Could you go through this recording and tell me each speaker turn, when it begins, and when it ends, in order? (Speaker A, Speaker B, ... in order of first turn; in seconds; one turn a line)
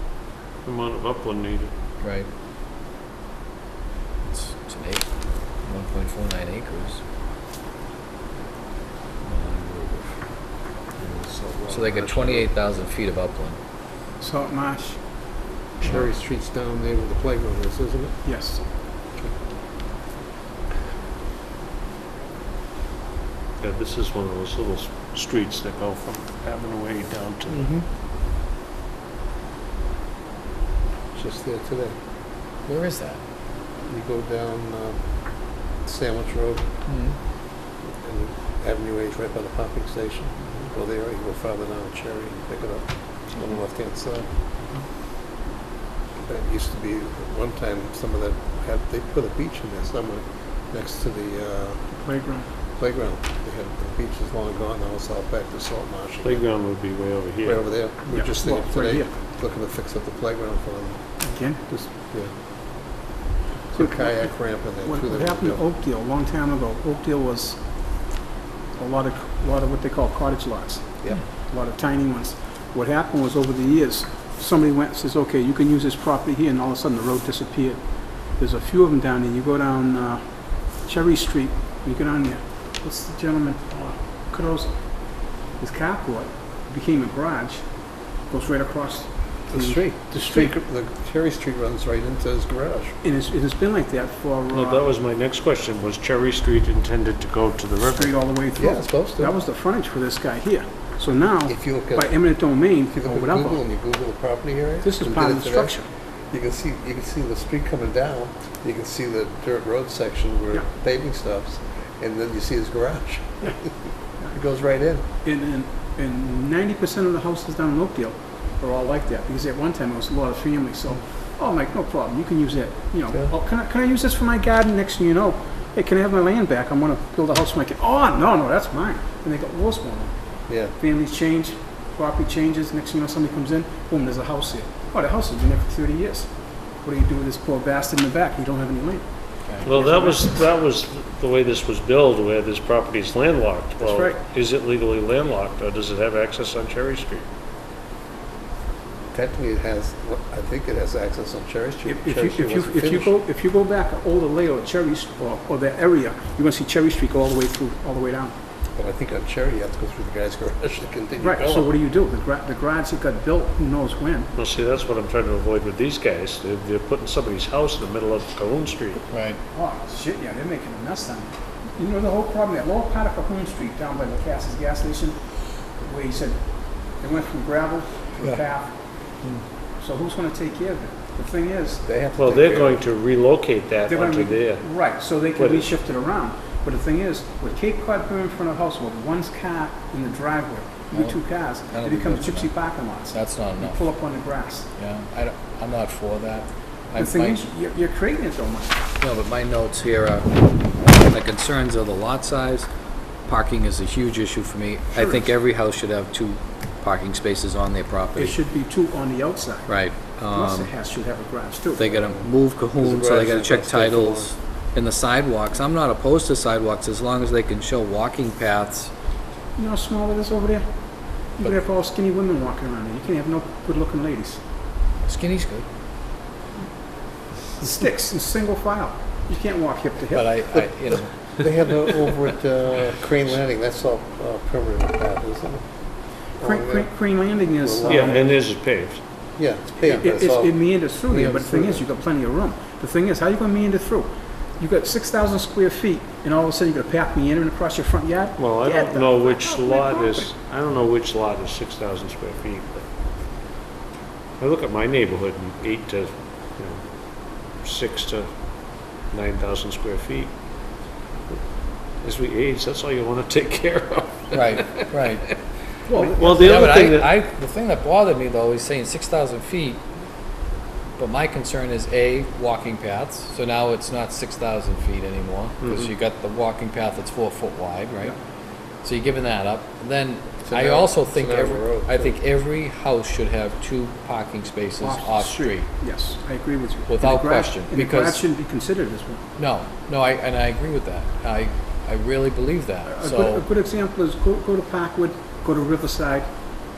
Speaker A: 0.6-1.7
Speaker B: 2.0-2.3
Speaker B: 4.2-7.0
Speaker B: 9.2-10.2
Speaker C: 11.0-12.5
Speaker B: 11.7-13.6
Speaker D: 14.2-15.0
Speaker C: 15.8-18.2
Speaker D: 18.2-18.6
Speaker A: 23.6-27.7
Speaker C: 31.1-32.0
Speaker B: 32.7-33.2
Speaker C: 33.8-36.7
Speaker B: 36.9-37.2
Speaker C: 37.8-44.4
Speaker C: 46.2-51.8
Speaker D: 51.9-52.5
Speaker C: 52.8-56.5
Speaker A: 56.2-57.6
Speaker C: 57.4-61.0
Speaker D: 58.1-59.1
Speaker D: 61.2-61.7
Speaker C: 61.7-62.3
Speaker C: 63.7-65.6
Speaker D: 63.7-67.6
Speaker D: 68.8-77.8
Speaker D: 78.4-87.7
Speaker D: 88.2-90.5
Speaker C: 89.5-93.0
Speaker D: 93.0-94.8
Speaker A: 94.5-98.1
Speaker D: 97.9-103.6
Speaker C: 98.6-99.3
Speaker C: 101.5-102.1
Speaker C: 102.9-105.8
Speaker D: 104.8-105.9
Speaker C: 106.3-113.7
Speaker C: 114.3-115.0
Speaker D: 115.2-130.1
Speaker C: 130.5-130.8
Speaker D: 130.8-139.1
Speaker D: 139.6-140.2
Speaker A: 139.6-147.2
Speaker D: 143.8-144.2
Speaker C: 149.1-153.1
Speaker D: 151.9-158.3
Speaker C: 158.8-161.7
Speaker D: 161.2-164.3
Speaker A: 164.4-169.0
Speaker B: 169.1-169.4
Speaker D: 169.5-175.2
Speaker D: 175.8-178.7
Speaker D: 179.8-181.8
Speaker C: 181.8-182.8
Speaker A: 182.2-184.6
Speaker D: 183.9-194.7
Speaker A: 185.4-185.7
Speaker B: 190.9-192.5
Speaker B: 193.1-193.8
Speaker B: 194.8-197.4
Speaker D: 197.0-198.8
Speaker B: 199.0-202.7
Speaker B: 203.2-208.4
Speaker D: 204.9-205.3
Speaker D: 208.2-212.0
Speaker B: 209.7-210.7
Speaker B: 211.8-218.9
Speaker C: 212.8-214.3
Speaker D: 219.6-220.7
Speaker D: 221.3-224.4
Speaker B: 225.1-225.7
Speaker D: 227.6-230.4
Speaker B: 230.1-231.2
Speaker C: 231.2-235.6
Speaker C: 236.4-236.9
Speaker D: 236.4-238.2
Speaker C: 237.5-238.2
Speaker A: 237.9-239.0
Speaker C: 239.4-241.8
Speaker D: 239.8-250.3
Speaker A: 248.4-252.9
Speaker A: 254.4-258.3
Speaker A: 259.0-260.3
Speaker A: 262.0-264.9
Speaker B: 264.3-265.3
Speaker D: 265.9-266.6
Speaker A: 266.2-267.2
Speaker B: 266.2-269.8
Speaker B: 271.0-278.2
Speaker A: 275.6-275.9
Speaker B: 278.8-285.7
Speaker C: 280.5-282.1
Speaker D: 284.8-289.2
Speaker B: 286.9-288.2
Speaker B: 289.4-293.5
Speaker D: 292.9-296.3